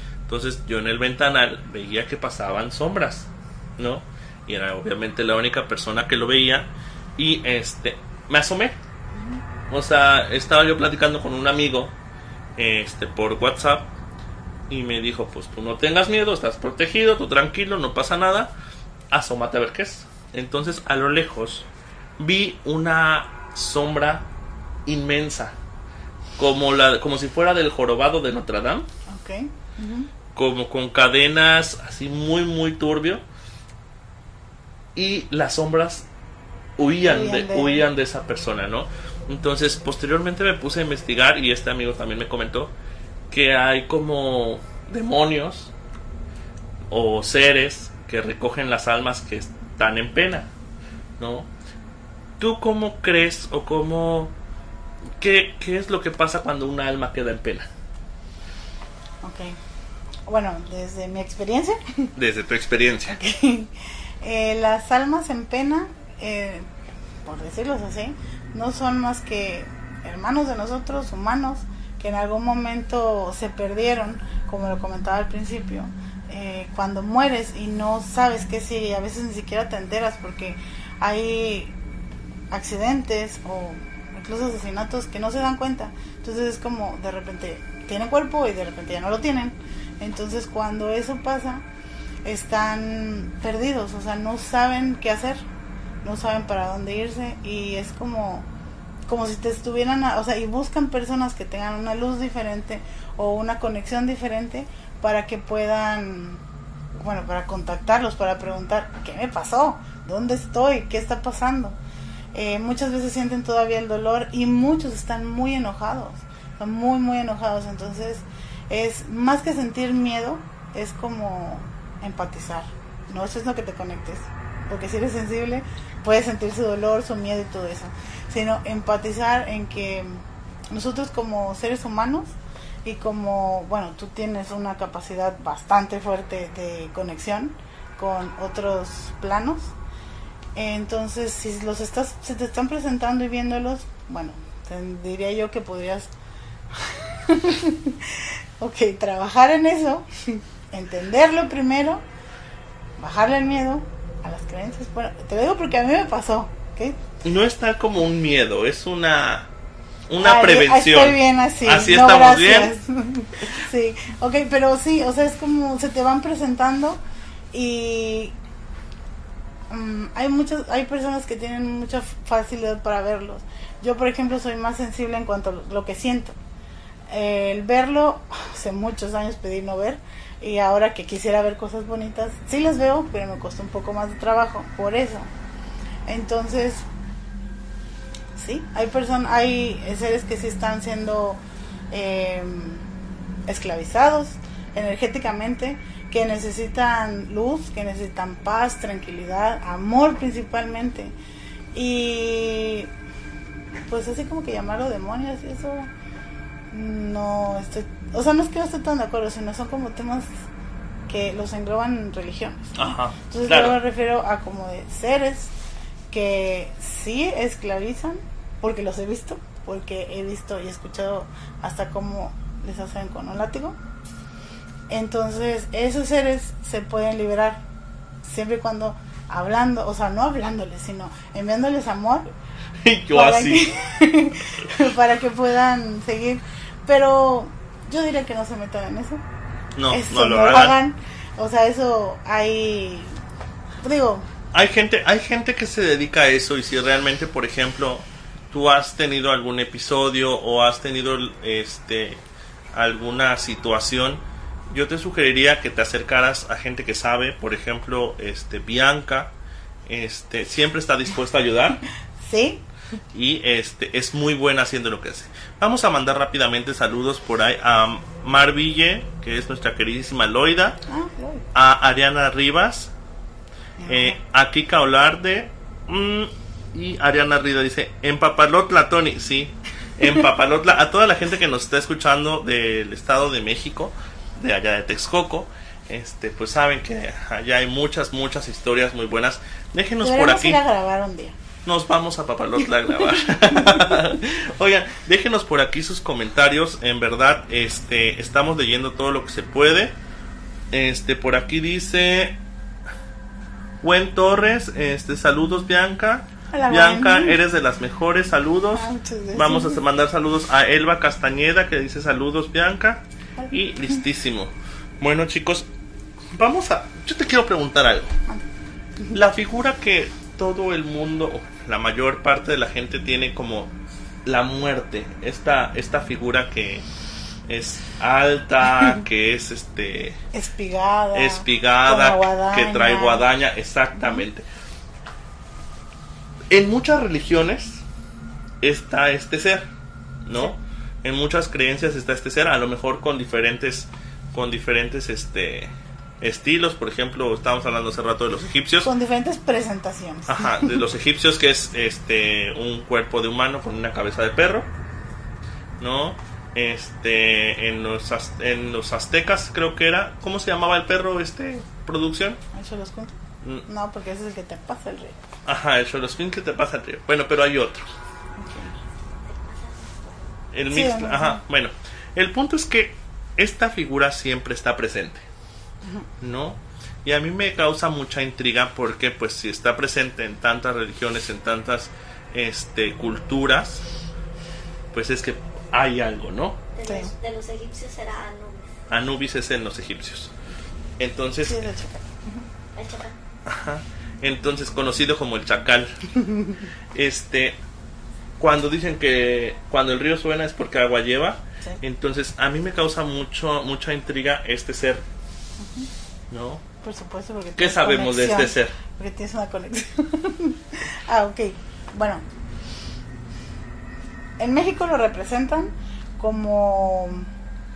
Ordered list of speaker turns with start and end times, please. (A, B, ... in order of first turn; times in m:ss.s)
0:00.3-0:08.8 A
0:09.1-0:09.4 B
0:09.7-0:11.9 A
0:12.6-0:13.9 A
0:14.7-0:18.5 A
0:19.1-0:21.7 A
0:22.2-0:24.3 A
0:24.9-0:25.5 A
0:26.4-0:28.9 A
0:29.1-0:30.1 B
0:30.4-0:33.2 A
0:35.0-0:36.1 A
0:36.8-0:42.7 A
0:37.0-0:37.9 B
0:43.3-0:45.7 A
0:46.9-0:50.5 A
0:51.2-0:51.5 A
0:52.4-0:54.3 A
0:55.2-0:57.7 A
0:59.2-0:59.6 B
1:00.3-1:02.1 B
1:02.2-1:03.2 A
1:03.1-1:06.7 B
1:07.2-1:21.8 B
1:22.5-1:31.6 B
1:32.2-1:35.4 B
1:36.0-1:38.5 B
1:39.1-1:46.4 B
1:47.0-1:51.8 B
1:52.3-2:19.7 B
2:20.6-2:26.1 B
2:26.7-2:32.0 B
2:33.0-2:37.0 B
2:37.2-2:39.5 A
2:40.1-2:42.7 A
2:40.2-2:47.0 B
2:47.5-2:48.4 B
2:49.7-2:56.4 B
2:57.1-3:05.3 B
3:06.1-3:06.9 B
3:08.4-3:12.9 B
3:13.5-3:21.2 B
3:21.7-3:22.9 B
3:23.9-3:25.9 B
3:26.7-3:30.3 B
3:31.1-3:32.8 B
3:32.8-3:33.8 A
3:33.3-3:35.5 B
3:36.1-3:43.8 B
3:44.9-3:47.6 B
3:48.2-3:52.3 B
3:52.8-3:53.7 A
3:53.1-3:59.2 B
3:59.8-4:00.8 A
3:59.9-4:03.2 B
4:03.8-4:04.3 B
4:04.5-4:12.2 A
4:12.7-4:19.3 A
4:19.9-4:21.8 A
4:22.2-4:22.6 B
4:23.1-4:30.8 A
4:30.9-4:31.5 B
4:31.5-4:32.9 A
4:33.8-4:34.2 B
4:33.9-4:50.6 A
4:50.0-4:51.4 B
4:51.6-5:00.0 A
5:00.7-5:02.4 A
5:03.8-5:15.7 A
5:06.5-5:07.4 B
5:08.7-5:09.8 B
5:13.4-5:14.0 B
5:16.4-5:18.1 A
5:19.1-5:23.7 A
5:24.2-5:26.9 A
5:27.5-5:30.2 A
5:30.3-5:33.3 B
5:31.1-5:34.4 A
5:34.0-5:34.2 B
5:36.5-5:37.8 A
5:38.6-5:39.7 A
5:40.3-5:48.9 A
5:48.8-5:50.8 B
5:50.3-5:54.7 A
5:55.8-6:02.4 A
6:02.5-6:03.1 B
6:03.7-6:05.2 B
6:05.5-6:07.9 A
6:08.4-6:08.8 B
6:09.2-6:10.3 C
6:10.5-6:15.2 A
6:10.7-6:11.4 B
6:15.8-6:16.1 B
6:16.2-6:23.8 A
6:24.9-6:26.6 A
6:26.8-6:28.8 C
6:26.8-6:27.1 B
6:28.9-6:30.3 A
6:31.0-6:31.7 A
6:31.4-6:32.5 B
6:32.8-6:33.1 C
6:33.5-6:36.1 A
6:36.1-6:36.6 B
6:36.9-6:37.6 A
6:38.4-6:45.0 A
6:45.6-6:45.9 B
6:46.3-6:46.6 A
6:46.8-6:52.2 B
6:47.6-6:48.8 A
6:54.4-6:57.3 B